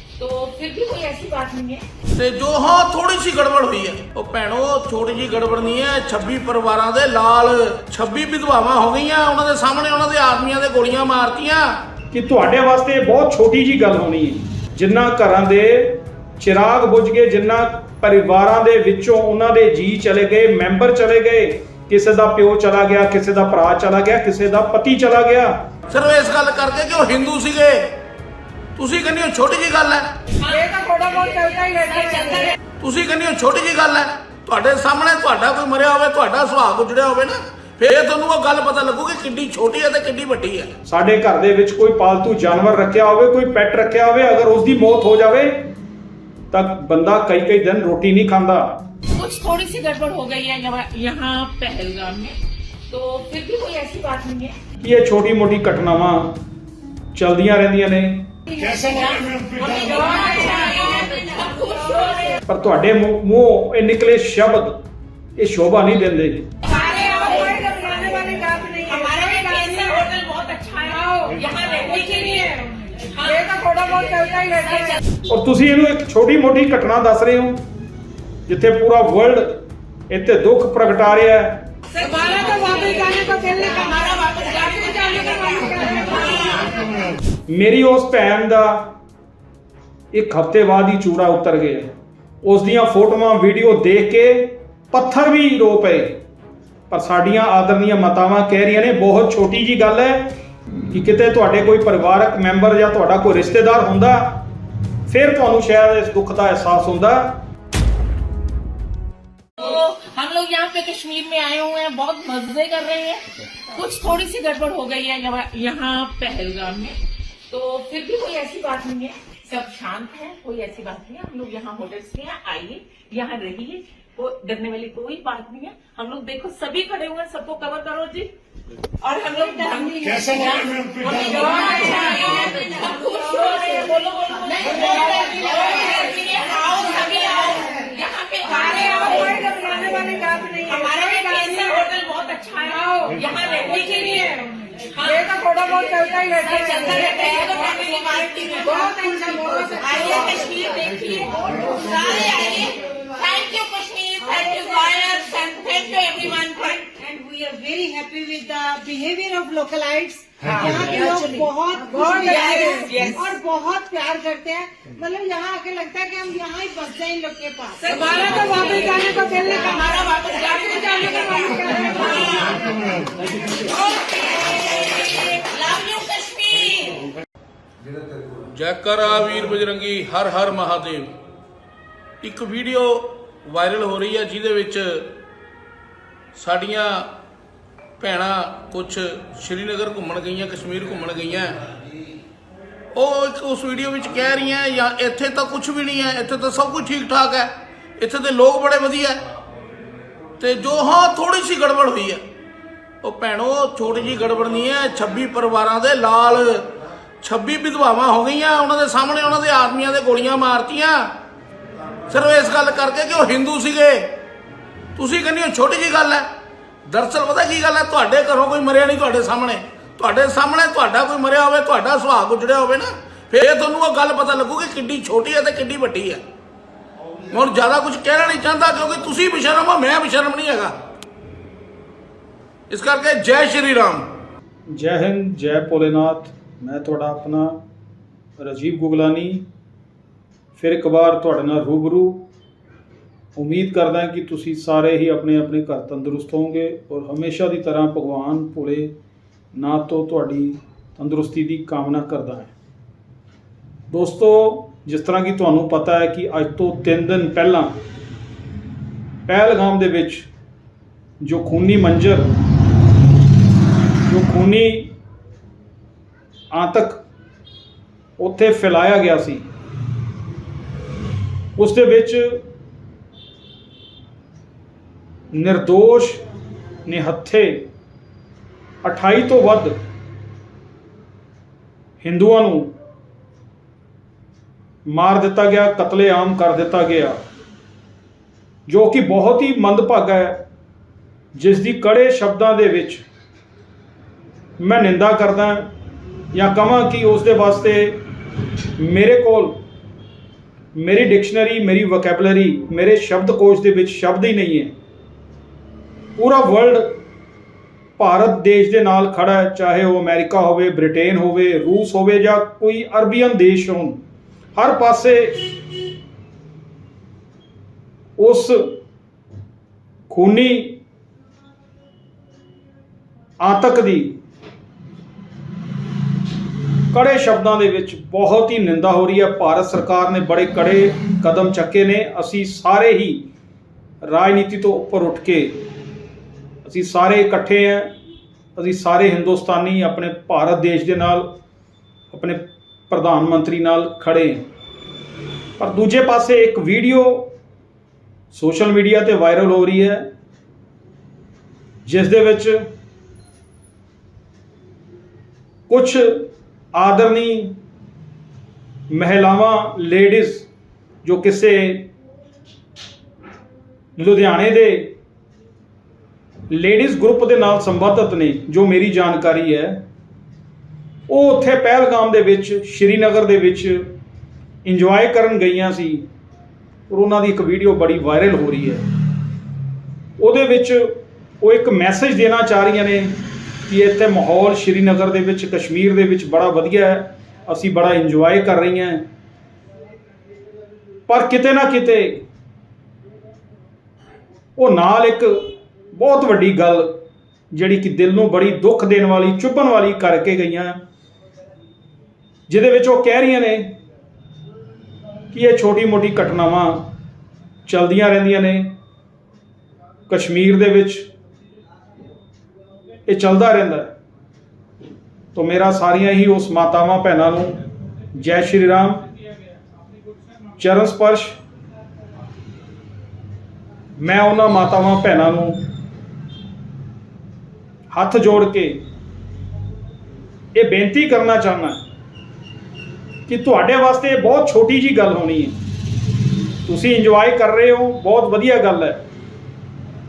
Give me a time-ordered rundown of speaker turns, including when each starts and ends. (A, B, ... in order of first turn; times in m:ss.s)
0:00.2-0:01.8 A
0:02.1-0:11.7 B
0:12.1-0:25.6 C
0:25.9-0:28.0 B
0:28.8-0:30.2 B
0:30.4-0:32.5 A
0:30.5-0:32.4 D
0:32.8-0:40.7 B
0:40.9-0:45.7 C
0:46.5-0:48.8 C
0:49.1-0:52.4 A
0:52.9-0:54.6 A
0:54.8-0:56.4 C
0:57.2-0:58.3 C
0:58.6-1:02.4 A
1:02.5-1:04.8 C
1:05.4-1:06.5 C
1:06.7-1:08.2 A
1:06.7-1:09.7 E
1:08.9-1:13.7 A
1:11.9-1:13.0 E
1:13.3-1:14.9 D
1:14.5-1:15.0 A
1:15.3-1:17.6 C
1:18.5-1:21.7 C
1:22.1-1:23.2 A
1:22.3-1:22.9 E
1:23.0-1:24.3 D
1:23.7-1:24.1 E
1:23.9-1:26.6 A
1:24.6-1:24.9 E
1:25.1-1:26.4 D
1:27.5-1:29.0 C
1:30.1-1:36.2 C
1:36.9-1:40.3 C
1:40.9-1:44.4 C
1:45.1-1:47.4 C
1:49.6-1:57.0 A
1:57.5-2:08.3 A
2:09.0-2:29.0 A
2:15.2-2:15.8 E
2:18.7-2:21.5 E
2:23.8-2:24.5 E
2:25.7-2:26.4 D
2:28.7-2:30.4 E
2:29.8-2:36.9 A
2:36.9-2:52.4 E
2:40.8-2:41.3 A
2:42.2-2:43.3 A
2:47.8-2:49.1 A
2:48.3-2:48.6 D
2:49.7-2:52.5 A
2:53.6-2:56.9 A
2:58.4-3:01.1 B
3:02.2-3:05.1 B
3:06.4-3:07.1 B
3:08.0-3:11.6 B
3:12.9-3:19.2 B
3:20.4-3:22.2 B
3:23.0-3:31.1 B
3:32.1-3:34.1 B
3:35.0-3:36.3 B
3:36.9-3:46.2 B
3:47.3-3:50.8 B
3:52.7-3:54.1 B
3:54.7-3:57.6 C
3:58.4-3:59.4 C
4:00.6-4:02.2 C
4:03.4-4:08.9 C
4:09.5-4:12.5 C
4:13.9-4:17.8 C
4:19.3-4:20.3 C
4:21.2-4:22.3 C
4:24.0-4:24.9 C
4:26.5-4:27.0 C
4:28.2-4:29.5 C
4:31.6-4:32.4 C
4:35.3-4:36.2 C
4:36.9-4:37.7 C
4:38.8-4:39.8 C
4:42.0-4:42.7 C
4:44.9-4:47.2 C
4:48.7-4:50.4 C
4:51.4-4:53.0 C
4:54.6-4:55.7 C
4:56.3-4:58.0 C
4:58.8-4:59.6 C
5:00.8-5:04.7 C
5:06.2-5:07.0 C
5:08.0-5:14.0 C
5:14.6-5:15.6 C
5:18.2-5:18.8 C
5:20.1-5:20.8 C
5:23.4-5:24.2 C
5:26.9-5:33.2 C
5:34.0-5:35.6 C
5:36.6-5:37.9 C
5:38.6-5:41.3 C
5:42.1-5:44.5 C
5:45.6-5:47.3 C
5:48.3-5:50.0 C
5:51.8-5:52.6 C
5:55.7-5:57.6 C
5:58.9-6:00.5 C
6:01.0-6:01.9 C
6:04.0-6:04.9 C
6:06.5-6:09.8 C
6:11.1-6:13.9 C
6:14.6-6:16.0 C
6:16.9-6:18.8 C
6:20.2-6:29.0 C
6:31.1-6:32.2 C
6:34.6-6:37.0 C
6:37.5-6:40.8 C
6:42.5-6:43.8 C
6:45.3-6:46.9 C
6:47.7-6:48.7 C
6:50.1-6:51.1 C
6:53.1-6:53.9 C
6:55.4-6:57.6 C
6:58.2-6:59.0 C
7:00.6-7:01.4 C
7:04.0-7:05.6 C
7:07.9-7:08.8 C
7:10.5-7:11.8 C
7:13.3-7:15.6 C
7:16.7-7:19.0 C